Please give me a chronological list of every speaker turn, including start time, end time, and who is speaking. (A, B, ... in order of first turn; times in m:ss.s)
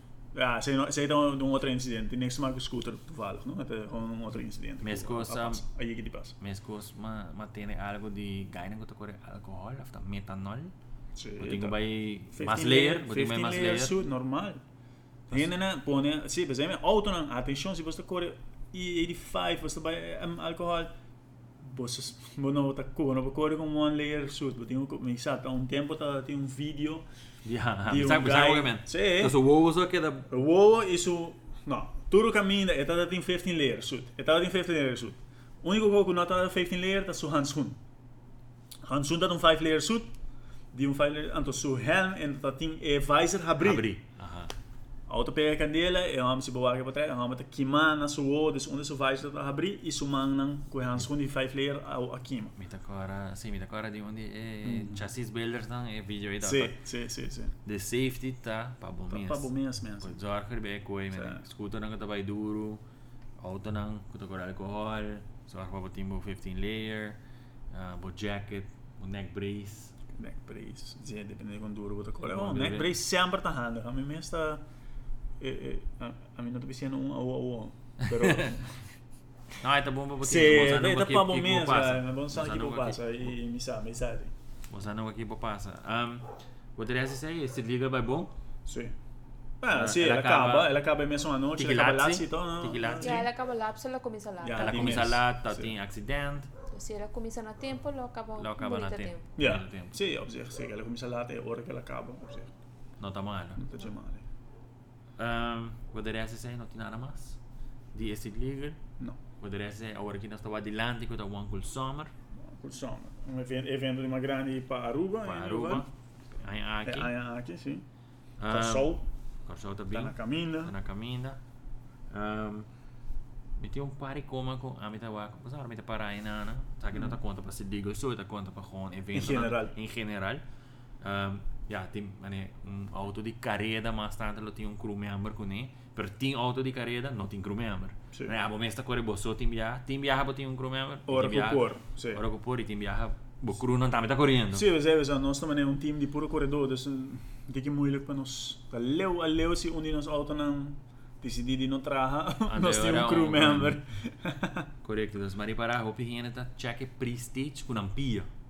0:00.3-0:06.4 A
0:04.8-0:05.6 B
0:06.4-0:10.7 B
0:11.2-0:11.8 A
0:11.4-0:13.9 B
0:12.3-0:14.6 A
0:15.3-0:20.9 A
0:21.6-0:27.1 A
0:27.4-0:30.3 B
0:27.9-0:29.4 A
0:30.3-0:37.8 A
0:38.8-0:40.1 A
0:40.7-0:43.9 A
0:43.6-0:44.5 B
0:45.1-0:52.6 A
0:52.6-0:56.8 B
0:54.6-0:55.1 A
0:56.4-0:57.5 A
0:57.6-0:59.5 B
0:59.1-1:00.2 A
1:00.0-1:02.8 B
1:01.1-1:01.4 A
1:03.4-1:07.2 B
1:07.7-1:09.9 B
1:10.1-1:14.6 A
1:12.2-1:13.0 B
1:15.4-1:18.8 A
1:18.1-1:18.6 B
1:19.6-1:23.2 B
1:20.2-1:24.3 A
1:24.7-1:28.3 B
1:28.6-1:28.9 A
1:29.6-1:33.3 A
1:29.7-1:30.7 B
1:31.6-1:33.3 B
1:33.0-1:35.1 C
1:34.4-1:35.7 A
1:34.6-1:36.5 B
1:36.7-1:39.3 C
1:38.4-1:40.0 B
1:39.4-1:42.5 A
1:43.0-1:43.6 B
1:43.6-1:44.2 A
1:45.2-1:47.4 B
1:47.9-1:48.8 B
1:49.4-1:52.1 B
1:52.4-1:55.9 A
1:55.2-1:57.1 B
1:56.8-1:57.8 A
1:58.4-2:01.4 B
1:58.5-1:59.1 A
1:59.9-2:00.7 A
2:02.1-2:02.7 B
2:03.6-2:10.4 B
2:09.1-2:09.7 A
2:11.0-2:24.7 B
2:21.1-2:22.2 A
2:24.5-2:34.7 A
2:32.5-2:33.8 B
2:34.8-2:38.3 B